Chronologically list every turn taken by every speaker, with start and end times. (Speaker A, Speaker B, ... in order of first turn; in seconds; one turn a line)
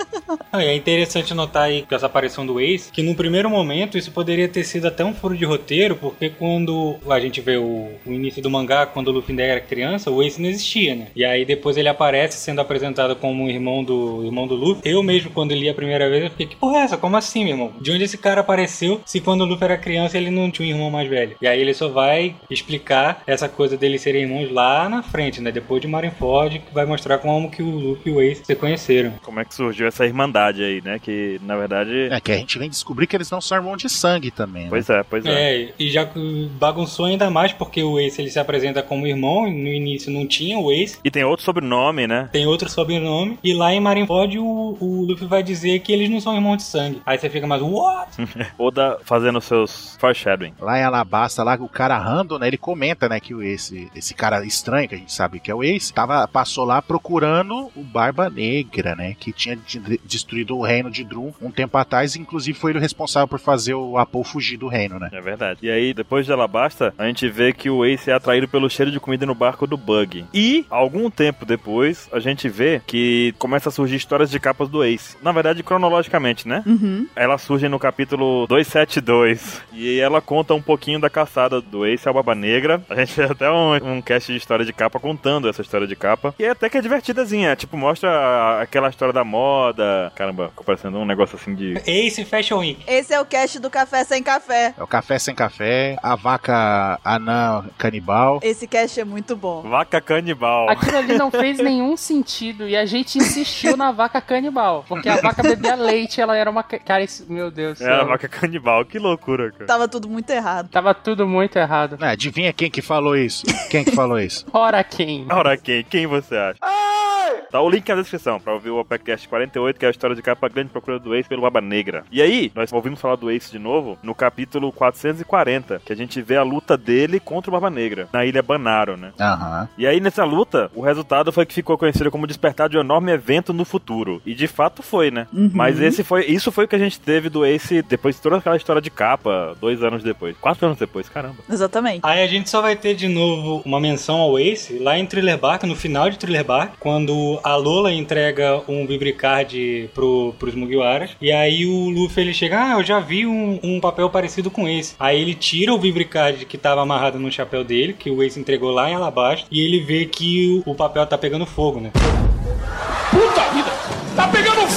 Speaker A: 0.5-29.2
Speaker B: 29.2-32.1
Speaker C: 32.1-34.8
Speaker B: 34.7-35.5
Speaker A: 35.2-41.0
Speaker B: 41.0-42.3
Speaker A: 42.3-48.1
Speaker B: 48.2-50.5
Speaker C: 50.6-65.1
Speaker B: 65.1-91.8
Speaker D: 76.7-77.1
Speaker A: 91.8-92.8
Speaker D: 92.8-94.8
Speaker C: 94.8-98.4
Speaker D: 98.4-99.7
Speaker B: 99.6-101.7
Speaker E: 100.7-108.2
Speaker B: 107.8-109.7
Speaker D: 109.7-110.7
Speaker E: 110.7-112.0
Speaker C: 112.0-114.4
Speaker E: 114.5-115.3
Speaker B: 115.3-116.6
Speaker B: 117.5-129.1
Speaker C: 129.2-129.7
Speaker B: 129.8-141.4
Speaker D: 135.3-136.0
Speaker D: 141.5-142.0
Speaker A: 142.0-161.9